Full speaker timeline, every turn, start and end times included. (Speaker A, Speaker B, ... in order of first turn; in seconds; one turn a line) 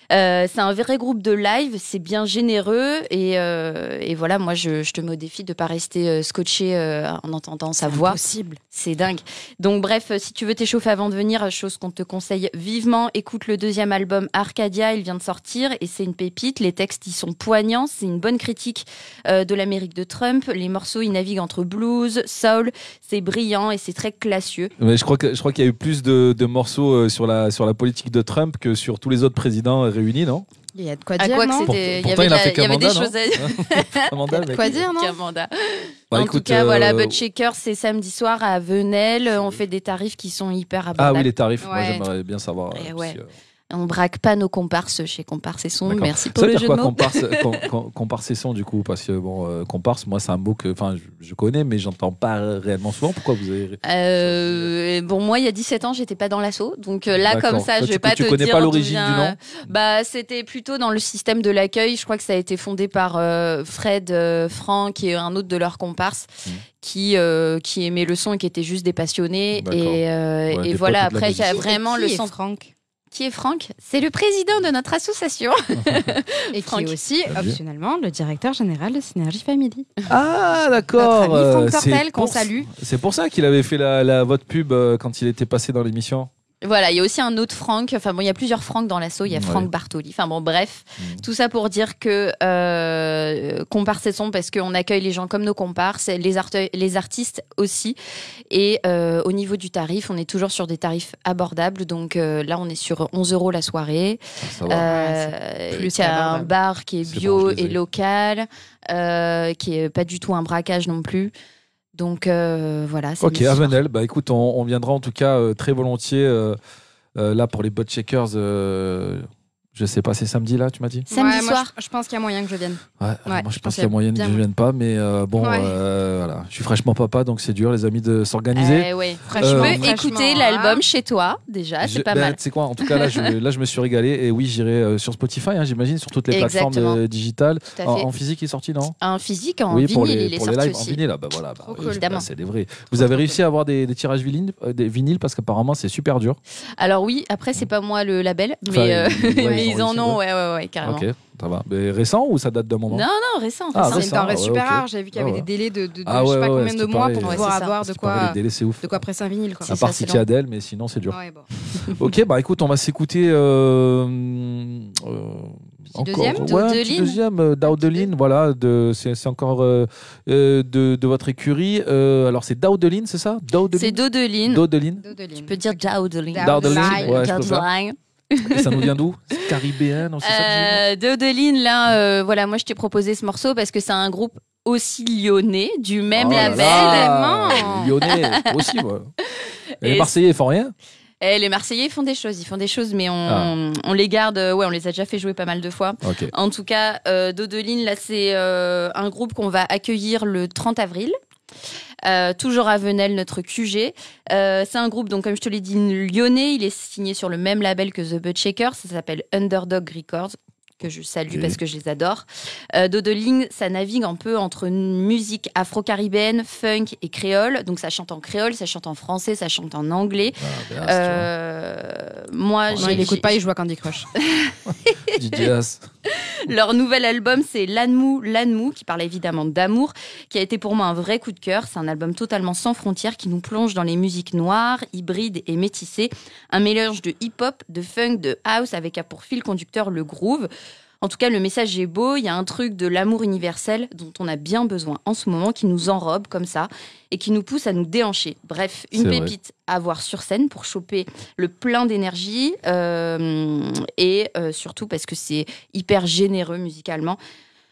Speaker A: 0.1-8.2
Speaker B: 7.8-8.6
Speaker A: 8.7-24.7
Speaker C: 24.8-30.5
Speaker B: 30.8-31.7
Speaker A: 31.2-41.3
Speaker C: 31.6-34.8
Speaker B: 34.5-35.2
Speaker C: 36.1-37.2
Speaker C: 41.0-43.3
Speaker B: 41.6-42.0
Speaker A: 42.7-43.2
Speaker A: 43.7-47.6
Speaker C: 45.9-54.7
Speaker A: 53.8-72.3
Speaker C: 57.2-59.6
Speaker C: 69.5-71.7
Speaker B: 71.4-72.7
Speaker A: 73.1-77.0
Speaker C: 75.8-76.1
Speaker B: 76.5-79.9
Speaker C: 77.3-77.6
Speaker C: 80.1-86.3
Speaker B: 81.0-82.7
Speaker A: 86.6-98.0
Speaker C: 89.3-89.7
Speaker C: 91.0-91.2
Speaker A: 98.5-111.3
Speaker C: 104.4-104.9
Speaker B: 104.9-106.5
Speaker C: 107.1-107.8
Speaker A: 111.9-113.8
Speaker C: 113.2-116.6
Speaker C: 117.2-121.1
Speaker A: 121.1-121.7
Speaker B: 121.1-124.4
Speaker C: 123.0-129.9
Speaker B: 125.4-125.7
Speaker A: 128.5-133.3
Speaker B: 129.3-130.8
Speaker C: 131.8-139.0
Speaker A: 136.3-137.0
Speaker A: 137.8-138.1
Speaker A: 139.0-141.0
Speaker C: 139.7-146.4
Speaker B: 141.7-142.0
Speaker A: 142.0-142.3
Speaker A: 143.0-143.3
Speaker A: 146.8-151.1
Speaker C: 148.7-150.2
Speaker B: 149.4-149.7
Speaker C: 150.8-153.1
Speaker A: 152.9-154.1
Speaker C: 153.7-155.5
Speaker B: 153.8-159.7
Speaker C: 156.0-159.1
Speaker A: 157.2-157.8
Speaker A: 159.7-160.2
Speaker C: 159.7-175.0
Speaker B: 161.1-161.5
Speaker B: 166.0-166.5
Speaker A: 166.4-167.2
Speaker A: 173.7-174.7
Speaker B: 175.0-175.6
Speaker A: 175.4-178.9
Speaker B: 176.3-177.4
Speaker C: 176.4-177.7
Speaker C: 178.5-180.8
Speaker A: 180.2-187.1
Speaker C: 186.1-189.1
Speaker B: 186.3-187.9
Speaker A: 188.0-188.6
Speaker C: 189.8-190.7
Speaker A: 189.8-190.1
Speaker A: 191.2-201.1
Speaker C: 193.3-193.5
Speaker C: 196.0-196.3
Speaker A: 202.0-223.3
Speaker C: 211.3-211.6
Speaker C: 220.4-221.3
Speaker C: 222.7-223.2
Speaker B: 222.8-224.1
Speaker A: 224.2-225.0
Speaker C: 225.1-225.9
Speaker A: 226.2-240.5
Speaker A: 241.0-257.2
Speaker C: 248.9-249.3